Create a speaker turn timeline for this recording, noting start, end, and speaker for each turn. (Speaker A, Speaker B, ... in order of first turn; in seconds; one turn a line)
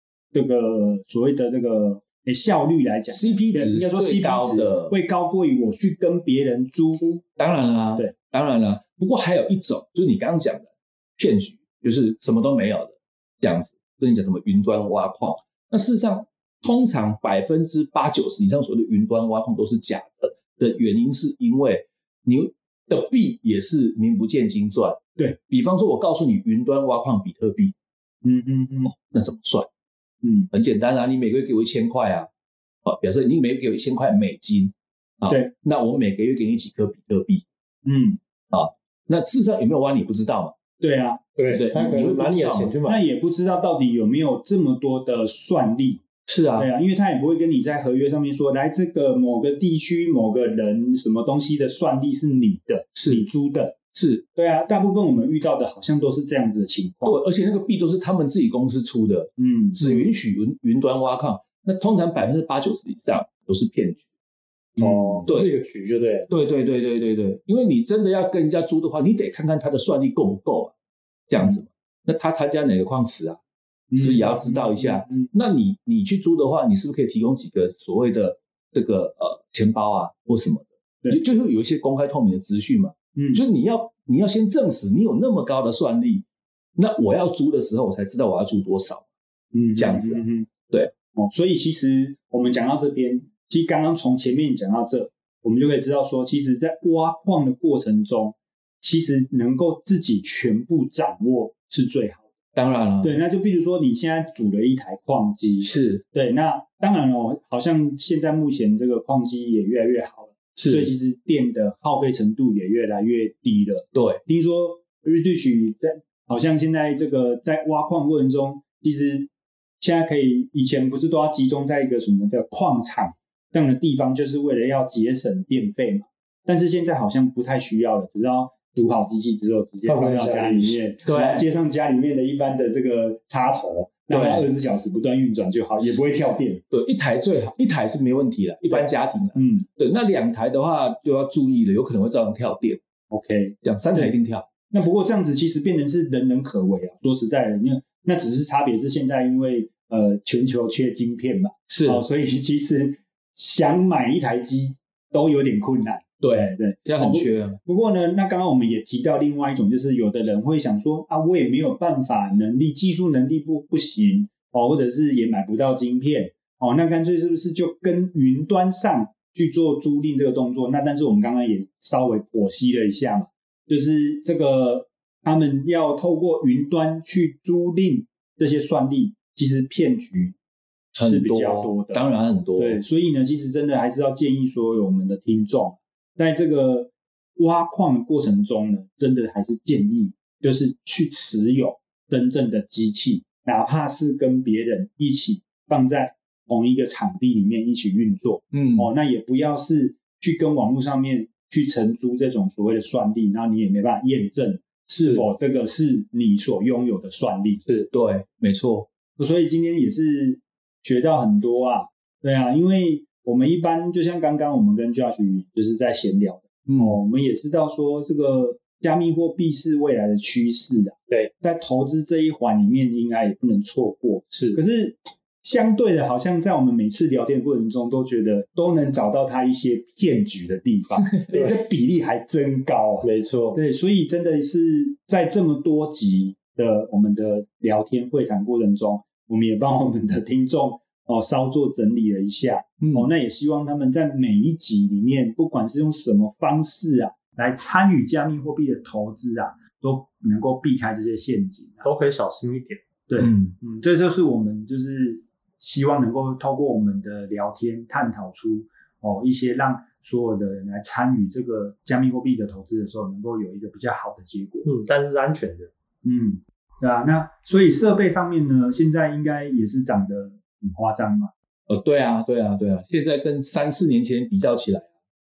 Speaker A: 0.3-7.2
Speaker B: 3.1-4.9
Speaker B: 7.4-27.7
Speaker A: 28.2-28.9
Speaker B: 28.9-29.7
Speaker A: 30.2-30.5
Speaker B: 30.5-32.3
Speaker B: 32.9-37.4
Speaker A: 37.9-38.2
Speaker B: 38.5-40.5
Speaker A: 40.8-41.2
Speaker C: 41.4-43.0
Speaker B: 41.5-42.7
Speaker A: 42.9-46.0
Speaker B: 46.3-46.7
Speaker A: 46.6-53.8
Speaker B: 52.9-53.2
Speaker B: 53.9-54.2
Speaker A: 54.4-57.2
Speaker B: 57.0-64.0
Speaker A: 59.4-60.1
Speaker A: 64.8-65.3
Speaker B: 64.8-65.5
Speaker C: 64.9-66.3
Speaker B: 66.3-70.7
Speaker B: 71.3-73.4
Speaker A: 73.9-75.3
Speaker B: 74.0-86.2
Speaker A: 83.2-83.4
Speaker B: 86.8-89.0
Speaker A: 89.5-90.5
Speaker B: 89.8-90.9
Speaker A: 91.1-102.2
Speaker B: 102.5-103.2
Speaker A: 103.0-119.3
Speaker B: 105.6-106.0
Speaker B: 110.6-110.9
Speaker B: 113.9-114.2
Speaker A: 119.8-136.6
Speaker C: 129.8-130.8
Speaker B: 131.1-131.4
Speaker B: 134.1-134.4
Speaker B: 136.7-142.8
Speaker A: 138.7-139.7
Speaker A: 143.1-144.1
Speaker B: 143.6-144.4
Speaker A: 144.7-180.4
Speaker B: 151.7-152.0
Speaker B: 156.2-157.6
Speaker B: 180.9-182.8
Speaker A: 181.0-207.6
Speaker B: 198.5-198.9
Speaker C: 204.9-205.2
Speaker B: 207.9-208.9
Speaker A: 209.2-251.9
Speaker B: 216.7-217.0
Speaker C: 224.3-224.6
Speaker C: 233.0-233.6
Speaker B: 242.8-243.1
Speaker C: 251.8-252.8
Speaker A: 253.1-264.7
Speaker B: 253.2-253.6
Speaker C: 264.6-265.7
Speaker A: 266.0-271.3
Speaker B: 271.7-274.9